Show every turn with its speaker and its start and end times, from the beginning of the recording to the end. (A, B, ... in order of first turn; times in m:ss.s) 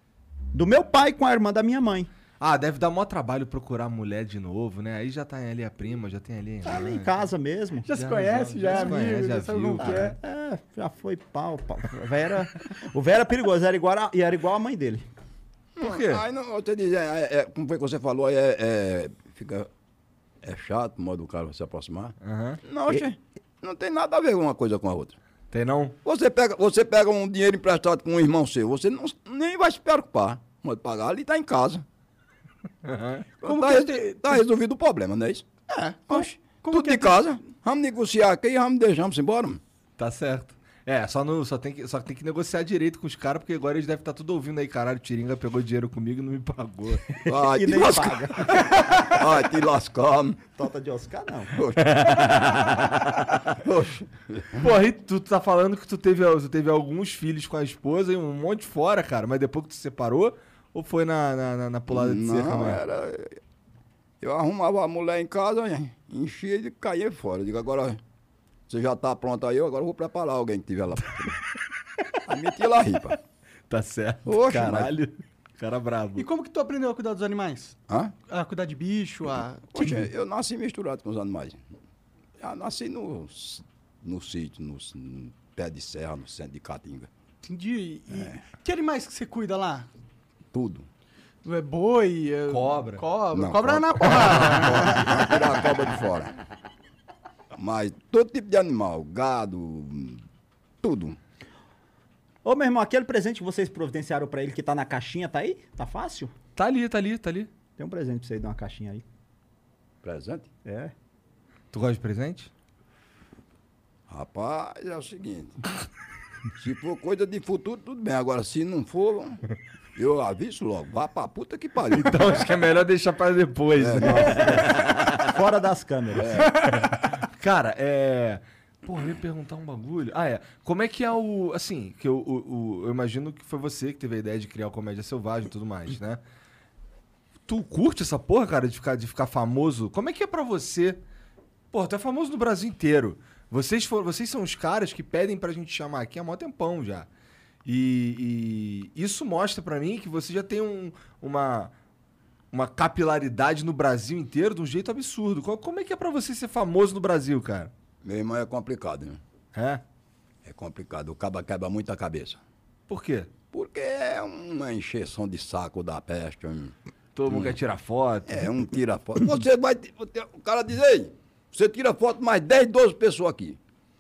0:00.5-0:02.1 A
0:02.4-0:07.1 B
0:06.6-0:07.9 A
0:07.9-0:10.2 C
0:08.0-0:10.2 B
0:09.8-0:15.1 A
0:15.8-0:19.7 D
0:15.8-0:16.2 B
0:20.4-0:25.2 D
0:22.2-0:22.6 B
0:25.5-0:26.0 B
0:26.0-0:31.8 D
0:32.8-0:33.4 B
0:33.4-0:35.4 D
0:33.4-0:34.4 C
0:35.7-0:37.2 C
0:36.1-0:39.6 D
0:40.0-0:47.2 B
0:47.3-0:50.4 D
0:47.3-0:48.7 A
0:50.6-0:51.5 A
0:51.6-0:52.8 D
0:53.5-0:54.6 D
0:54.6-1:02.8 B
1:01.9-1:03.4 D
1:04.2-1:08.0 D
1:08.7-1:11.4 D
1:12.3-1:13.2 D
1:13.7-1:16.3 B
1:14.3-1:14.9 D
1:16.2-1:17.8 C
1:17.9-1:18.1 D
1:18.3-1:19.8 C
1:19.7-1:21.6 D
1:22.4-1:27.1 D
1:27.4-1:29.9 C
1:28.1-1:28.4 D
1:30.5-1:30.9 D
1:31.4-1:35.4 C
1:32.5-1:33.0 B
1:33.3-1:36.4 D
1:37.5-1:40.2 D
1:40.8-1:41.2 D
1:42.4-1:46.3 A
1:46.6-1:47.5 B
1:47.8-1:49.0 A
1:50.0-1:50.5 D
1:50.6-1:50.9 A
1:51.7-1:52.5 B
1:54.1-1:55.6 D
1:56.6-1:59.4 D
2:00.0-2:02.4 D
2:01.9-2:04.8 B
2:03.8-2:04.8 D
2:05.3-2:06.5 A
2:06.2-2:06.5 D
2:06.7-2:16.2 B
2:17.5-2:21.0 B
2:21.7-2:27.1 B
2:27.6-2:31.7 B
2:32.5-2:37.7 B
2:38.0-2:39.2 D
2:39.5-2:39.8 B
2:40.4-2:42.4 D
2:42.9-2:43.3 B
2:43.5-2:46.7 D
2:47.2-2:48.5 B
2:47.3-2:47.6 D
2:48.3-2:53.6 D